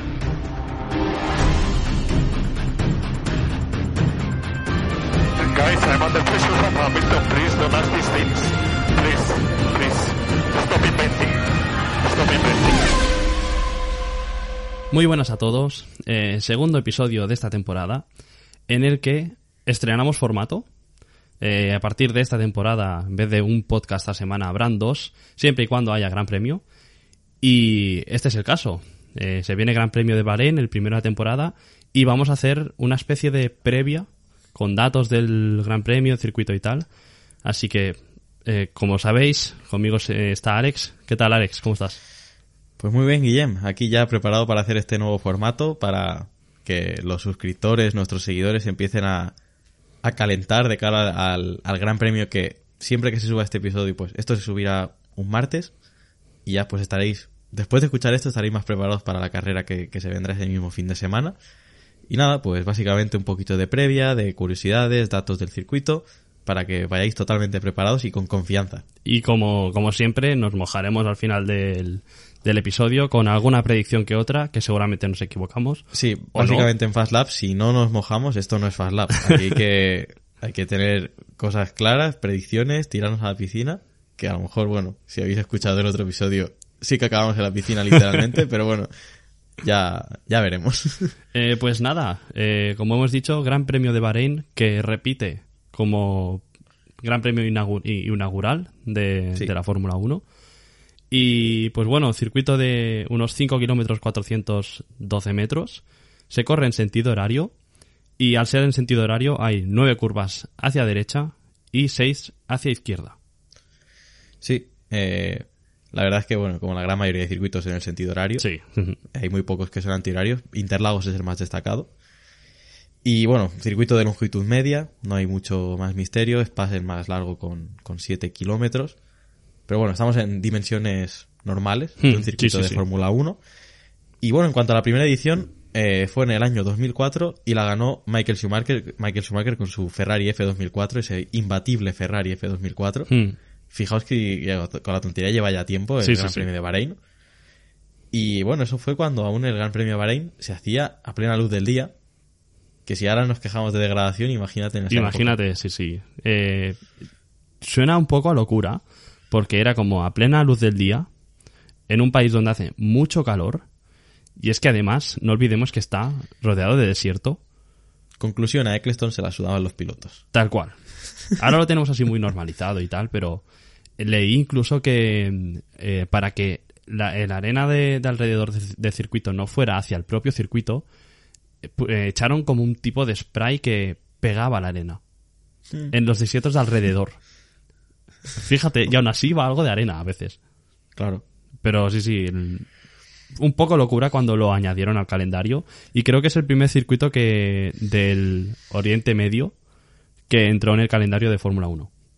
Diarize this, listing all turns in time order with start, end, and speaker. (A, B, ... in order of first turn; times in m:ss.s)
0:05.4-0:11.4 A
0:12.0-0:12.9 A
0:14.9-0:18.0 B
0:18.7-0:20.7 B
0:21.4-0:26.6 B
0:27.4-0:36.8 B
0:37.4-0:42.0 B
0:42.8-0:49.3 C
0:50.0-0:55.7 C
0:56.4-1:01.4 C
1:02.1-1:08.8 C
1:09.0-1:15.8 B
1:15.9-1:28.9 C
1:16.3-1:16.7 B
1:29.6-1:31.1 C
1:31.3-1:36.4 B
1:37.0-1:40.2 B
1:41.1-1:47.5 B
1:48.2-1:53.2 B
1:54.4-1:58.4 C
1:58.4-1:59.0 B
1:59.1-2:01.9 C
2:03.0-2:08.9 C
2:09.7-2:13.4 C
2:12.0-2:12.8 B
2:14.2-2:23.1 C
2:23.1-2:23.4 B
2:23.7-2:27.0 C
2:26.0-2:26.4 B
2:28.1-2:31.9 C
2:32.8-2:35.4 C
2:34.9-2:36.8 B
2:37.6-2:41.1 B
2:41.9-2:43.6 B
2:44.4-2:47.4 B
2:48.2-2:50.2 C
2:50.3-2:53.4 B
2:54.0-3:00.8 B
3:01.6-3:05.0 B
3:05.9-3:07.2 B
3:08.3-3:10.4 B
3:11.0-3:11.2 C
3:11.6-3:12.7 B
3:13.4-3:19.5 B
3:20.3-3:21.9 B